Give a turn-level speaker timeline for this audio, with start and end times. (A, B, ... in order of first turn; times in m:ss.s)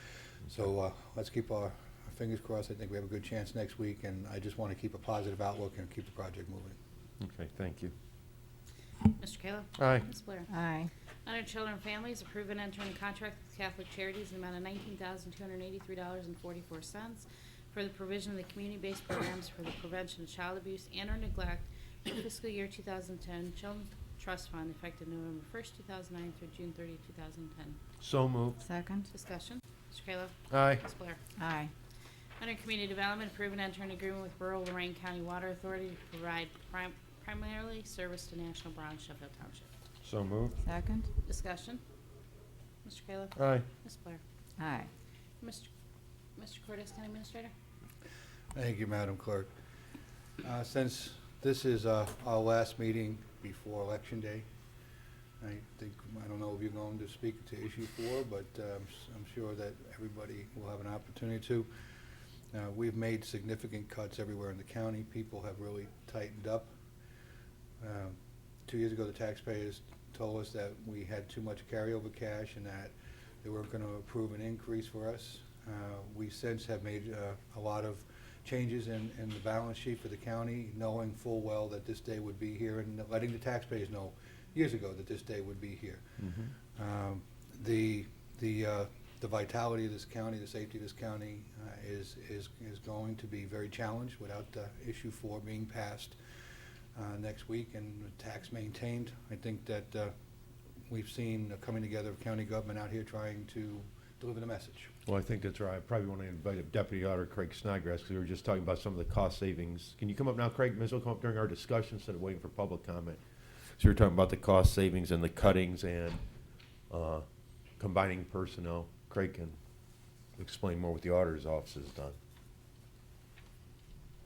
0:00.4-0:06.8 A
0:07.2-0:07.9 B
0:09.2-0:10.5 C
0:09.8-0:10.1 B
0:10.5-0:10.9 D
0:11.2-0:27.8 C
0:28.0-0:28.6 B
0:28.6-0:29.1 D
0:29.1-0:31.2 C
0:30.5-0:30.8 B
0:31.4-0:31.7 D
0:32.4-0:39.7 C
0:40.0-0:40.6 B
0:40.6-0:41.1 D
0:41.2-0:41.8 C
0:42.8-0:44.2 C
0:43.4-0:43.6 B
0:44.6-0:44.9 D
0:45.4-0:45.7 C
0:46.4-0:47.5 C
0:48.5-0:49.5 A
0:50.4-0:54.4 A
0:55.4-1:01.7 A
1:02.5-1:06.7 A
1:07.8-1:26.0 A
1:26.2-1:26.5 B
1:26.7-1:36.2 A
1:36.9-1:40.1 A
1:40.9-1:44.9 A
1:45.0-1:53.2 B
1:53.8-1:56.2 B
1:56.9-1:57.2 B
1:57.8-1:59.6 B
2:00.4-2:02.2 B